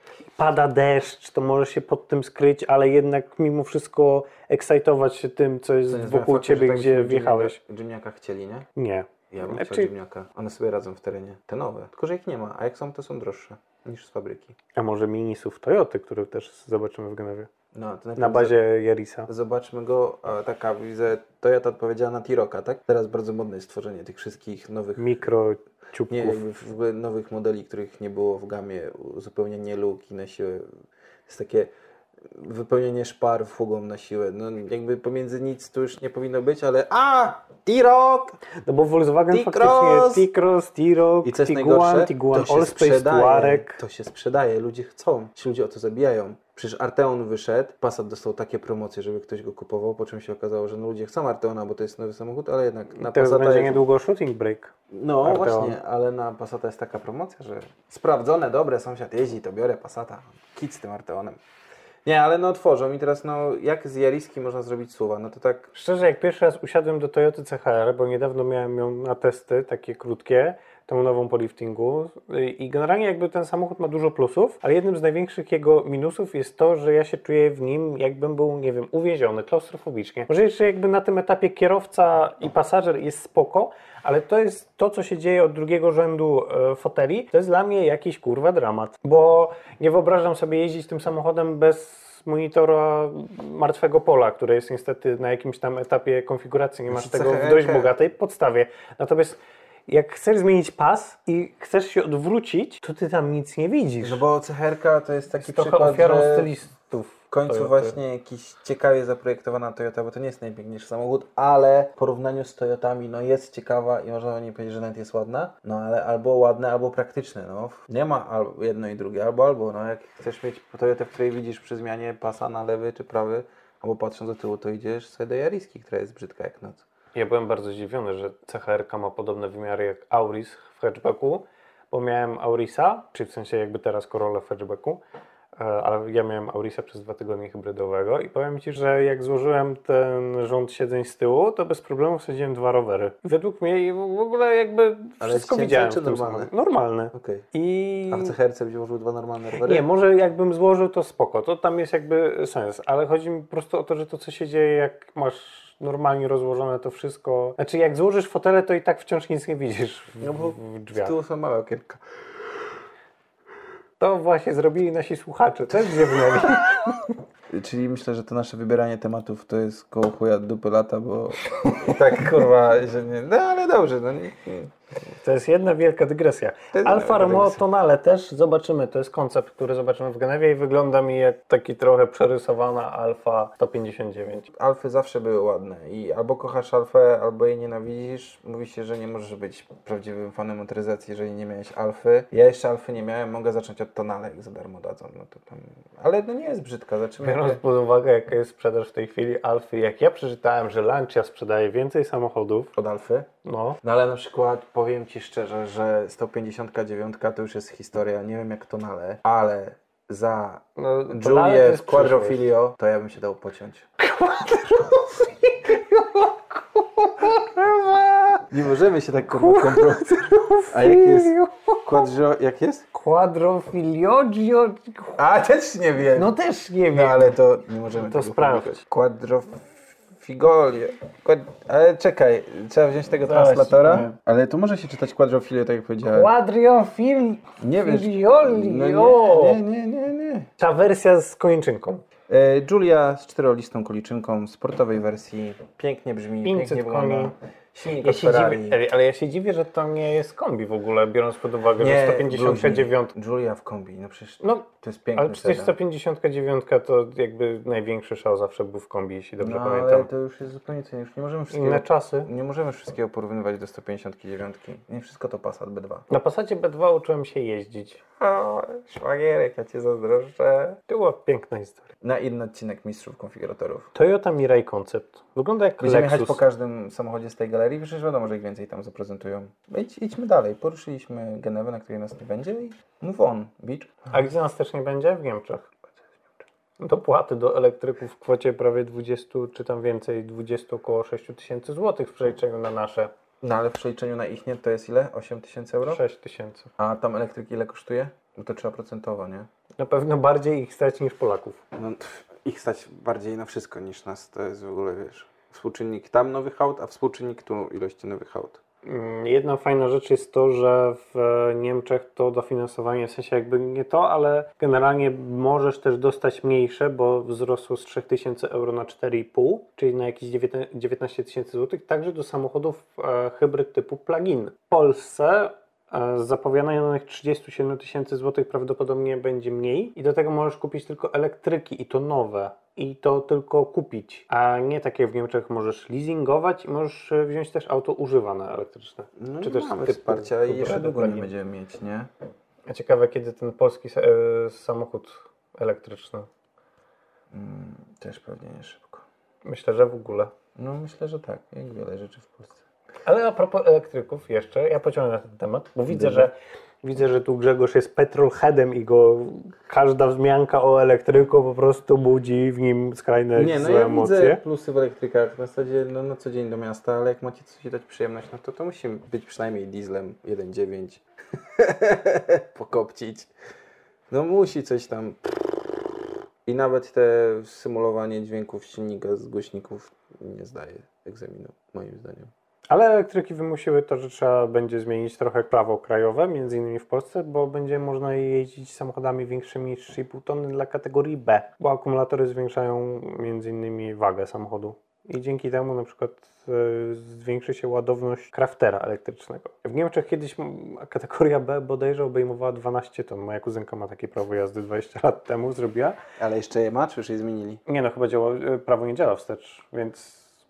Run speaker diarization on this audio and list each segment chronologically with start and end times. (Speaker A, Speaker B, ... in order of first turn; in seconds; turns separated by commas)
Speaker A: 0.4-7.6, Speaker B: 5.9-8.7, Speaker A: 8.8-9.9, Speaker B: 9.3-14.6, Speaker A: 14.8-17.5, Speaker B: 17.7-18.6, Speaker A: 18.2-19.3, Speaker B: 19.3-25.2, Speaker A: 25.0-26.4, Speaker B: 26.1-30.7, Speaker B: 31.3-31.7, Speaker B: 32.3-38.4, Speaker A: 38.6-43.8, Speaker B: 39.3-40.3, Speaker B: 41.2-53.8, Speaker A: 53.0-55.8, Speaker B: 54.9-61.4, Speaker B: 62.0-65.7, Speaker A: 65.7-104.2, Speaker B: 96.9-97.9, Speaker B: 104.0-106.5, Speaker A: 105.4-108.0, Speaker B: 107.3-126.8, Speaker A: 127.1-135.0, Speaker A: 135.6-148.3, Speaker B: 145.2-146.5, Speaker B: 147.1-147.5, Speaker B: 148.1-149.9, Speaker A: 149.6-161.2, Speaker B: 160.2-162.0, Speaker A: 164.0-167.1, Speaker B: 166.1-166.5, Speaker B: 167.5-174.7, Speaker A: 175.2-184.5, Speaker B: 176.7-177.6, Speaker B: 184.5-197.6, Speaker A: 197.2-202.7, Speaker B: 202.8-203.3, Speaker A: 203.4-203.8, Speaker B: 203.8-213.9, Speaker A: 210.8-212.4, Speaker A: 214.0-218.4, Speaker B: 218.5-221.3, Speaker A: 219.3-222.1, Speaker B: 221.9-222.9, Speaker A: 222.9-225.2, Speaker B: 225.2-226.3, Speaker A: 226.2-227.4, Speaker B: 226.9-236.3, Speaker A: 228.0-228.8, Speaker A: 233.2-234.1, Speaker A: 236.1-239.6, Speaker B: 237.6-240.5, Speaker A: 240.6-242.1, Speaker B: 242.3-248.8, Speaker A: 246.4-247.3, Speaker A: 248.0-253.1, Speaker B: 251.8-255.8, Speaker A: 254.4-260.1, Speaker B: 259.4-266.1, Speaker A: 261.5-262.3, Speaker A: 266.1-268.0, Speaker B: 268.2-270.8, Speaker A: 270.9-271.9, Speaker B: 272.0-273.9, Speaker A: 273.9-276.4, Speaker B: 275.8-284.1, Speaker A: 284.1-285.7, Speaker A: 286.8-293.1, Speaker B: 293.4-296.0, Speaker A: 295.9-296.7, Speaker B: 296.8-299.5, Speaker A: 299.8-301.6, Speaker B: 301.8-308.6, Speaker A: 308.9-341.3, Speaker B: 339.2-342.1, Speaker A: 342.7-346.3, Speaker B: 347.3-349.1, Speaker A: 349.4-350.3, Speaker B: 350.6-352.6, Speaker A: 353.1-364.4, Speaker B: 355.9-356.3, Speaker B: 363.4-373.3, Speaker B: 374.1-375.9, Speaker B: 376.4-382.3, Speaker A: 382.7-406.0, Speaker B: 406.2-407.6, Speaker A: 407.7-410.3